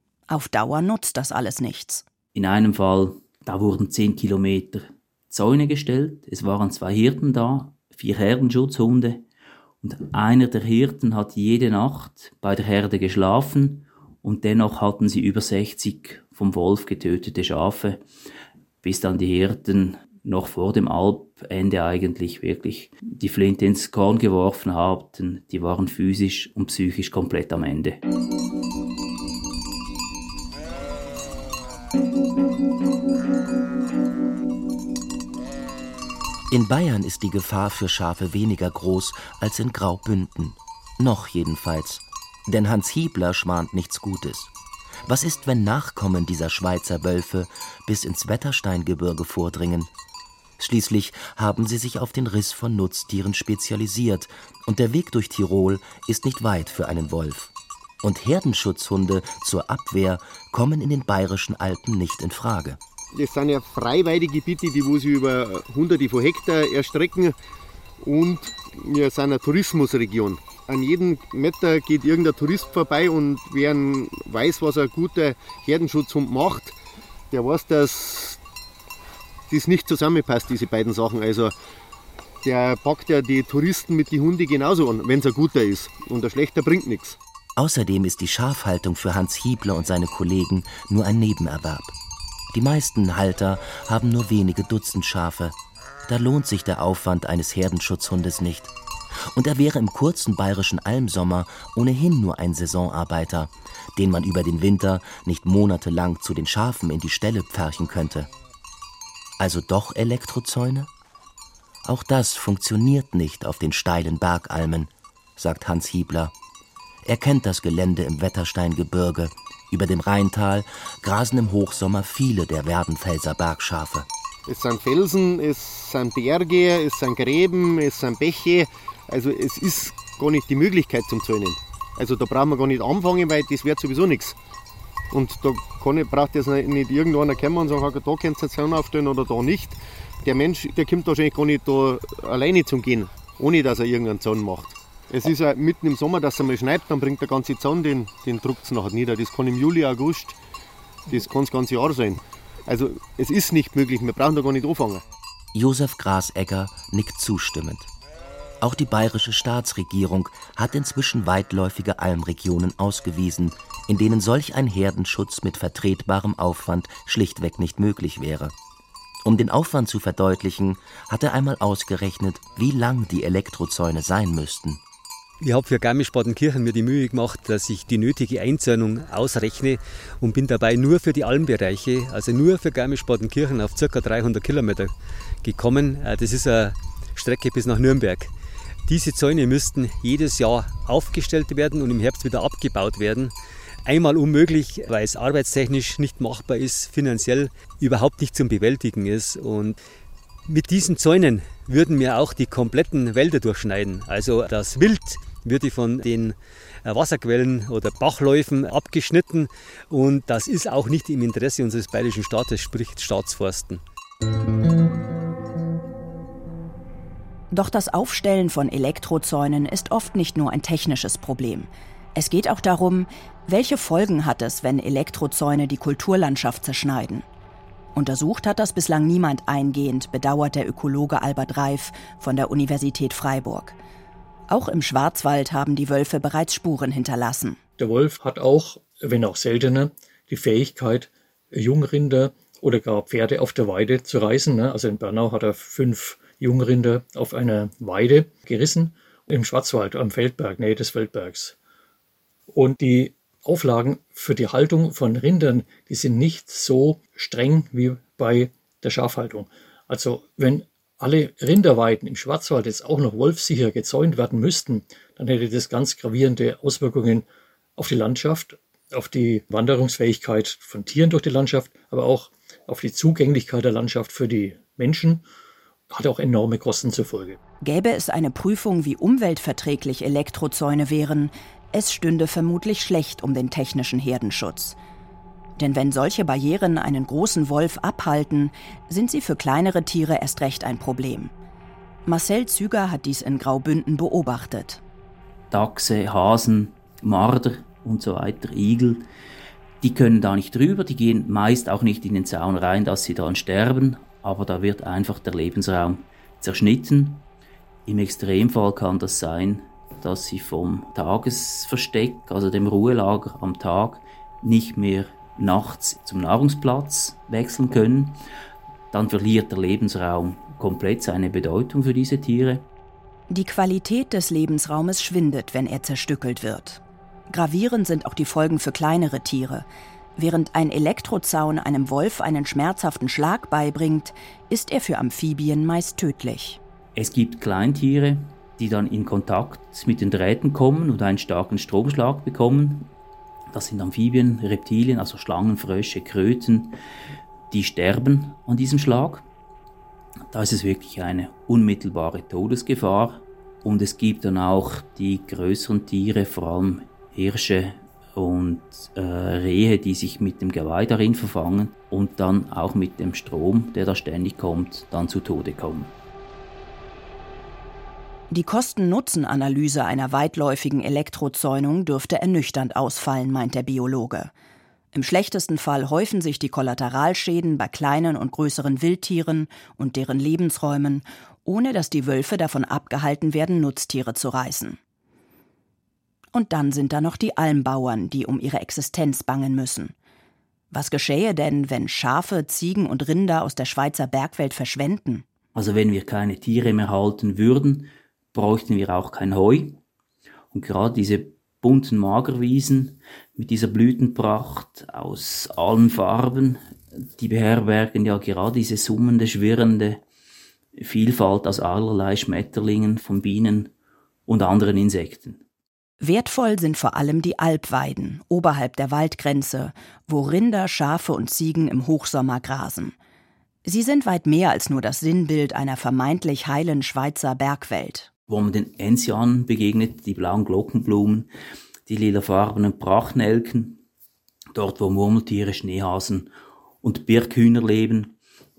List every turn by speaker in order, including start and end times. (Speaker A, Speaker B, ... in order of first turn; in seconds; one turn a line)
Speaker A: 0.3-2.0
Speaker B: 2.4-9.2
Speaker B: 9.8-18.0
Speaker B: 18.8-28.0
Speaker C: 36.5-44.5
Speaker C: 45.1-49.9
Speaker C: 50.6-62.8
Speaker D: 63.1-67.4
Speaker D: 68.0-76.8
Speaker D: 77.3-78.4
Speaker D: 79.5-81.5
Speaker D: 82.4-87.2
Speaker C: 87.6-91.9
Speaker C: 92.5-98.7
Speaker C: 99.3-108.3
Speaker C: 109.4-110.9
Speaker C: 111.8-116.3
Speaker C: 117.0-124.1
Speaker D: 124.5-134.4
Speaker D: 135.1-150.4
Speaker D: 151.1-155.0
Speaker C: 155.5-157.9
Speaker C: 158.6-168.6
Speaker C: 169.2-174.8
Speaker E: 175.4-188.3
Speaker E: 188.9-193.3
Speaker E: 193.9-199.8
Speaker E: 200.5-213.8
Speaker A: 217.5-227.3
Speaker A: 227.9-233.8
Speaker A: 234.5-237.6
Speaker F: 237.8-251.6
Speaker F: 252.5-275.2
Speaker F: 275.9-277.4
Speaker A: 277.6-284.8
Speaker A: 285.6-291.3
Speaker A: 292.1-294.8
Speaker B: 295.5-299.1
Speaker B: 299.8-307.3
Speaker B: 307.9-318.2
Speaker B: 318.9-322.7
Speaker A: 323.3-336.6
Speaker B: 337.0-342.9
Speaker B: 343.5-346.8
Speaker B: 347.5-349.2
Speaker B: 350.3-365.9
Speaker A: 368.3-374.3
Speaker A: 374.9-384.8
Speaker A: 386.3-389.9
Speaker A: 390.7-395.2
Speaker B: 395.6-399.8
Speaker B: 400.5-406.6
Speaker B: 407.2-410.0
Speaker B: 410.8-413.7
Speaker B: 414.3-415.4
Speaker A: 416.0-422.9
Speaker A: 423.6-428.1
Speaker B: 428.3-431.3
Speaker B: 431.9-433.8
Speaker B: 434.5-436.3
Speaker B: 436.8-438.2